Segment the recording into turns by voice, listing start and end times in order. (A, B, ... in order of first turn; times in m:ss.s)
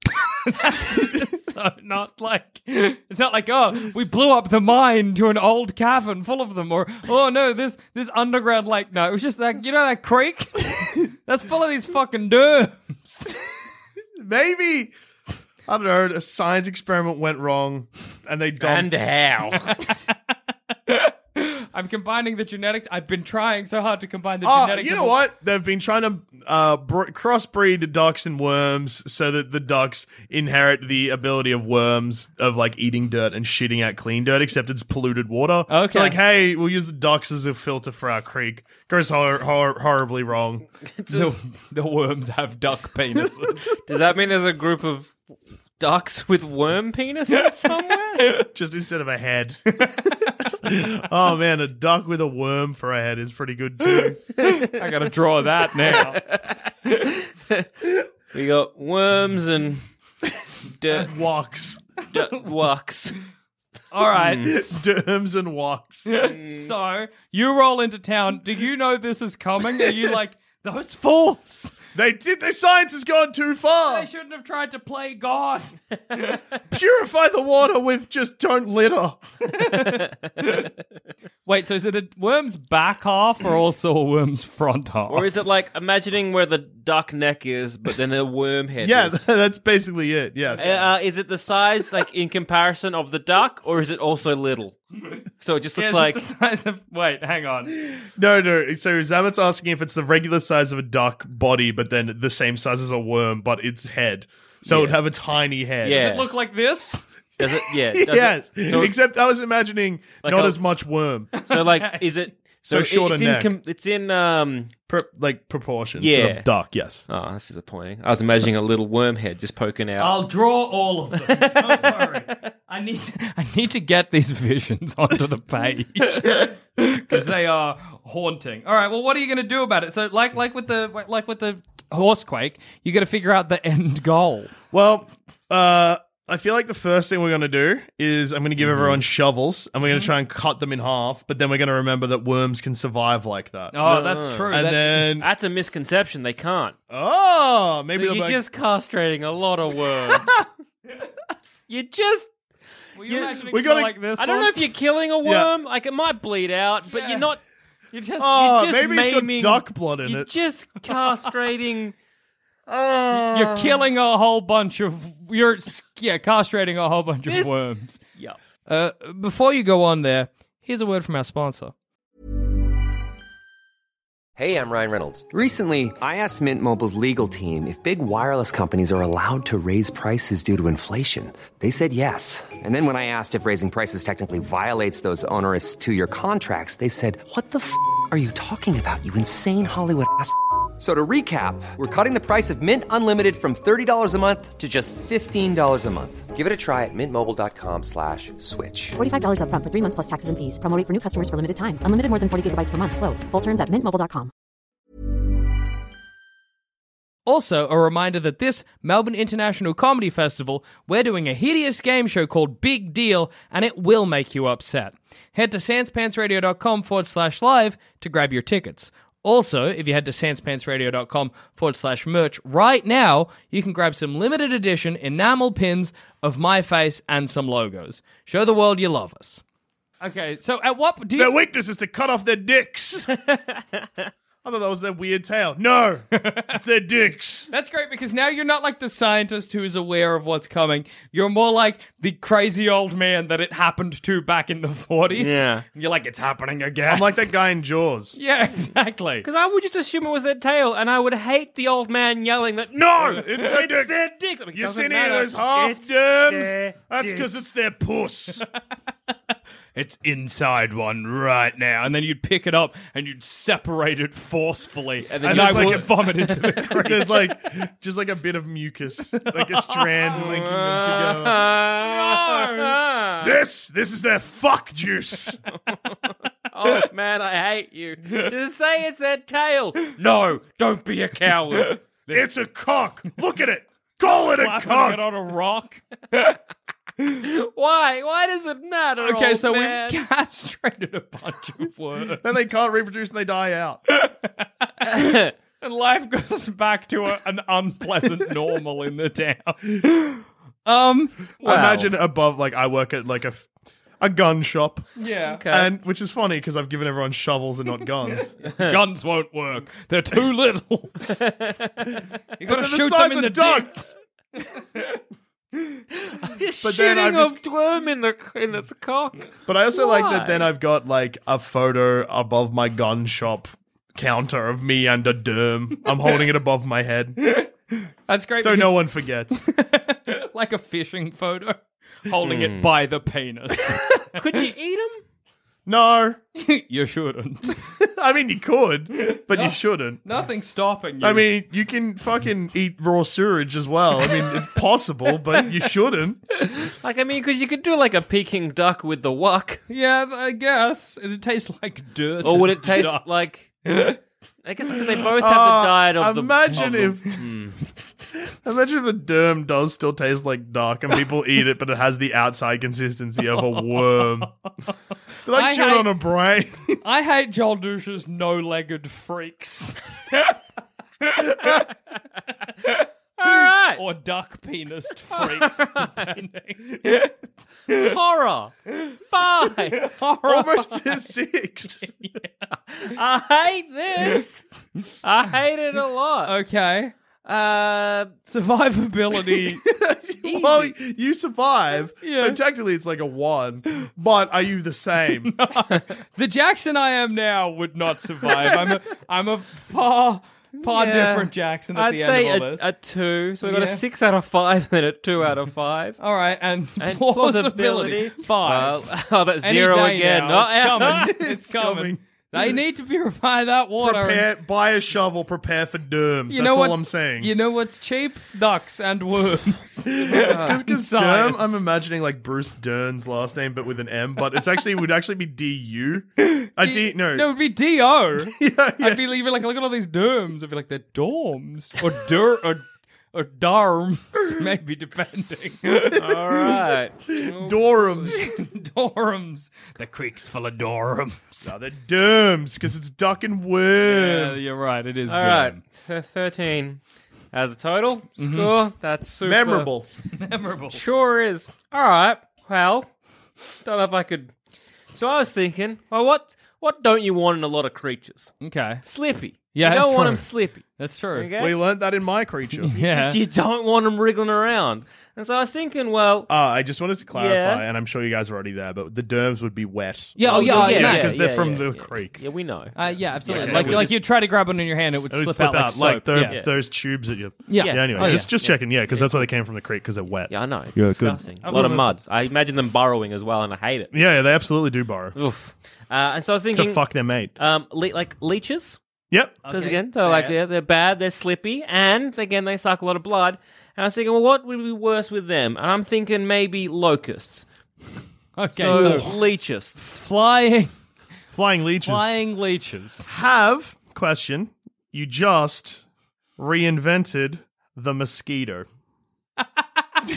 0:00.4-0:13.4 A
0:14.2-0:14.9 B
0:15.7-0:19.0 B
0:18.6-0:19.9 C
0:20.9-0:25.2 A
0:24.4-0:40.6 B
0:35.7-0:36.2 A
0:41.0-0:41.4 C
0:41.1-0:43.7 A
0:43.8-0:45.1 C
0:45.8-0:48.4 C
0:48.2-0:48.5 A
0:48.5-0:50.0 B
0:49.7-0:50.3 A
0:50.6-0:54.2 B
0:54.4-0:54.9 C
0:54.4-0:56.2 A
0:55.8-0:59.8 C
1:00.6-1:01.1 C
1:01.0-1:01.8 B
1:02.1-1:03.2 C
1:03.9-1:04.8 A
1:04.1-1:04.5 C
1:04.4-1:06.1 B
1:06.1-1:11.7 A
1:06.1-1:06.7 C
1:11.9-1:14.1 B
1:13.9-1:16.4 A
1:16.7-1:19.2 B
1:19.6-1:20.6 A
1:21.4-1:25.3 A
1:25.1-1:29.3 C
1:28.8-1:30.7 B
1:30.5-1:30.8 A
1:30.6-1:34.8 C
1:35.4-1:36.2 C
1:35.8-1:37.9 A
1:38.1-1:46.0 B
1:44.6-1:45.0 C
1:45.8-1:46.3 C
1:45.9-1:47.0 A
1:47.4-1:48.9 C
1:47.9-1:51.3 B
1:50.2-1:50.6 C
1:51.3-1:52.1 A
1:51.5-1:54.7 C
1:52.7-1:53.5 B
1:54.9-1:57.1 B
1:56.0-1:56.5 C
1:57.1-2:00.2 C
2:00.0-2:14.5 A
2:01.2-2:02.4 C
2:14.7-2:25.3 B
2:18.6-2:19.0 C
2:23.7-2:25.1 A
2:23.8-2:24.6 C
2:25.2-2:26.8 C
2:26.9-2:28.4 B
2:28.0-2:30.4 C
2:31.7-2:32.3 C
2:33.0-2:34.6 A
2:33.0-2:33.5 C
2:33.5-2:33.9 B
2:34.2-2:37.4 C
2:35.2-2:35.5 B
2:36.9-2:37.3 A
2:37.9-2:38.4 A
2:38.2-2:40.3 B
2:38.4-2:41.9 C
2:42.7-2:43.8 C
2:43.1-2:48.0 A
2:48.7-2:51.7 A
2:54.4-3:19.0 D
3:19.0-3:24.3 E
3:27.2-3:49.4 A
3:50.0-3:51.3 A
3:51.1-3:53.1 B
3:53.3-3:53.8 C
3:54.4-3:57.5 B
3:56.1-3:56.5 A
3:57.5-4:07.1 A
4:05.1-4:05.6 C
4:06.8-4:08.2 B
4:08.2-4:09.2 A
4:09.2-4:17.4 C
4:13.0-4:14.0 B
4:14.5-4:18.4 B
4:19.7-4:27.3 A
4:25.1-4:26.7 C
4:25.2-4:25.9 B
4:26.7-4:31.4 B
4:29.2-4:30.2 A
4:30.1-4:33.3 C
4:31.8-4:32.7 A
4:33.2-4:35.4 B
4:36.5-4:41.8 C
4:42.1-4:45.0 B
4:44.3-4:46.3 A
4:47.1-4:50.0 C
4:49.0-4:52.2 A
4:52.2-4:53.8 B
4:53.9-5:01.8 A
5:01.4-5:03.5 B
5:01.4-5:01.9 C
5:04.0-5:04.9 B
5:05.0-5:05.4 A
5:05.3-5:05.7 C
5:05.5-5:08.3 B
5:08.5-5:11.1 A
5:08.5-5:08.8 C
5:11.2-5:11.9 C
5:12.4-5:15.0 A
5:12.4-5:13.9 B
5:16.1-5:20.5 C
5:16.6-5:17.4 B
5:19.5-5:27.2 B
5:27.2-5:34.2 A
5:28.4-5:29.4 B
5:32.2-5:32.7 C
5:34.1-5:35.0 C
5:35.6-5:36.2 B
5:36.4-5:37.7 A
5:37.8-5:40.0 B
5:39.1-5:41.2 A
5:41.0-5:46.2 B
5:46.8-5:49.6 C
5:49.7-5:53.0 A
5:52.2-5:53.5 C
5:53.7-5:54.0 A
5:54.4-5:57.6 C
5:55.2-5:57.2 B
5:58.4-6:04.3 B
6:03.3-6:04.3 A
6:05.2-6:06.8 B
6:05.3-6:05.9 A
6:06.8-6:10.3 A
6:11.0-6:11.7 A
6:12.7-6:17.1 A
6:13.2-6:13.8 C
6:15.1-6:16.1 C
6:17.7-6:18.5 C
6:19.1-6:19.9 C
6:19.7-6:20.9 A
6:20.2-6:21.9 B
6:22.0-6:22.3 A
6:22.8-6:24.4 C
6:25.0-6:26.3 C
6:26.2-6:26.9 A
6:27.2-6:28.2 C
6:28.2-6:29.6 A
6:29.6-6:35.3 B
6:30.2-6:30.7 C
6:32.0-6:32.4 A
6:35.2-6:42.6 A
6:40.6-6:46.0 C
6:43.4-6:43.8 A
6:46.0-6:48.8 A
6:46.8-6:51.2 C
6:49.4-6:54.2 A
6:50.8-6:52.4 B
6:53.8-6:57.3 B
6:56.3-7:01.6 A
6:59.9-7:07.3 B
7:06.2-7:16.5 A
7:08.2-7:09.0 B
7:15.9-7:18.2 C
7:17.2-7:18.3 B
7:18.1-7:21.5 A
7:21.4-7:24.3 B
7:23.8-7:25.6 A
7:25.1-7:26.8 C
7:27.3-7:29.7 C
7:28.2-7:28.5 A
7:29.2-7:29.9 B
7:30.2-7:30.8 A
7:30.7-7:32.9 C
7:33.6-7:34.3 C
7:34.9-7:38.3 C
7:38.4-7:38.8 A
7:38.8-7:41.5 C
7:39.5-7:41.3 A
7:41.4-7:42.7 B
7:42.6-7:43.2 A
7:42.7-7:46.3 C
7:46.3-7:52.2 B
7:47.1-7:47.6 C
7:50.2-7:51.2 A
7:50.2-7:54.0 C
7:52.8-7:56.4 A
7:53.2-7:53.9 B
7:55.1-8:01.8 B
7:56.1-7:56.5 C
7:57.5-7:58.3 A
7:57.6-7:59.3 C
8:00.3-8:03.9 C
8:01.4-8:01.9 A
8:03.9-8:05.2 B
8:05.2-8:08.8 C
8:06.5-8:07.3 B
8:09.1-8:09.4 B
8:09.4-8:10.4 A
8:09.5-8:17.4 C
8:18.4-8:19.1 A
8:18.5-8:19.8 C
8:18.7-8:19.1 B
8:19.8-8:20.7 A
8:21.3-8:22.1 B
8:21.8-8:23.1 A
8:23.0-8:25.8 B
8:26.4-8:28.7 B
8:29.4-8:29.8 A